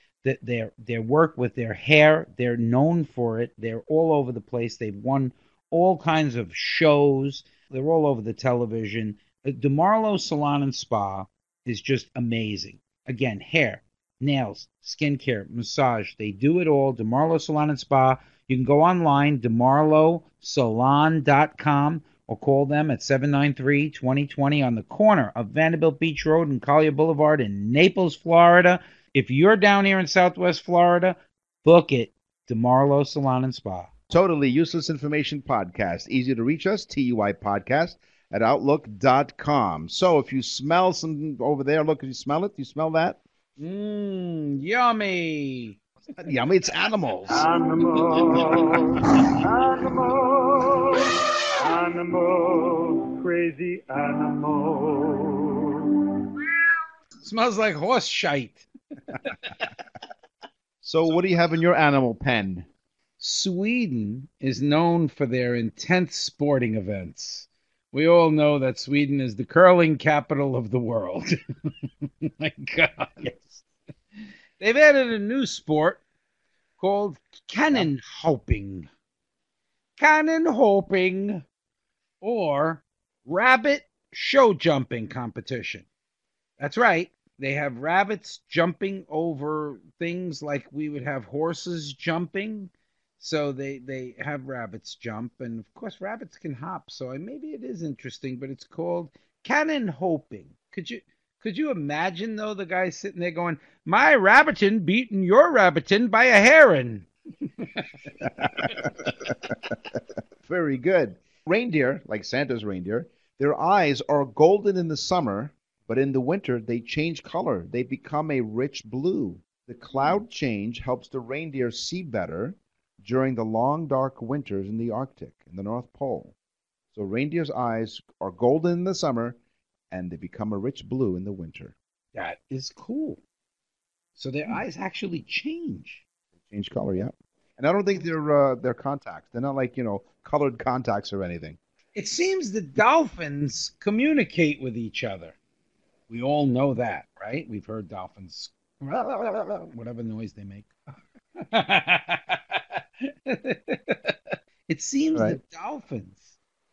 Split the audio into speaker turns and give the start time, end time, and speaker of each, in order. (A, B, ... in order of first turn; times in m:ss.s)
0:00.2-0:33.9 A
0:34.1-0:43.2 B
0:43.6-0:45.8 A
0:46.2-0:47.4 B
0:47.3-0:51.0 C
0:51.6-0:55.5 C
0:57.2-0:58.6 A
1:00.8-1:02.7 B
1:03.2-1:11.4 A
1:12.1-1:13.6 A
1:14.6-1:16.0 A
1:16.8-1:18.9 A
1:20.0-1:21.4 A
1:22.2-1:25.9 A
1:26.6-1:47.1 A
1:47.6-1:47.9 A
1:48.2-1:49.8 B
1:50.4-2:06.3 B
2:06.9-2:09.4 B
2:09.9-2:11.7 B
2:12.1-2:13.2 A
2:14.2-2:16.0 A
2:16.4-2:21.6 B
2:21.9-2:25.4 A
2:26.1-2:30.7 A
2:31.4-2:32.6 A
2:33.2-2:34.1 A
2:34.7-2:36.4 A
2:35.1-2:35.4 B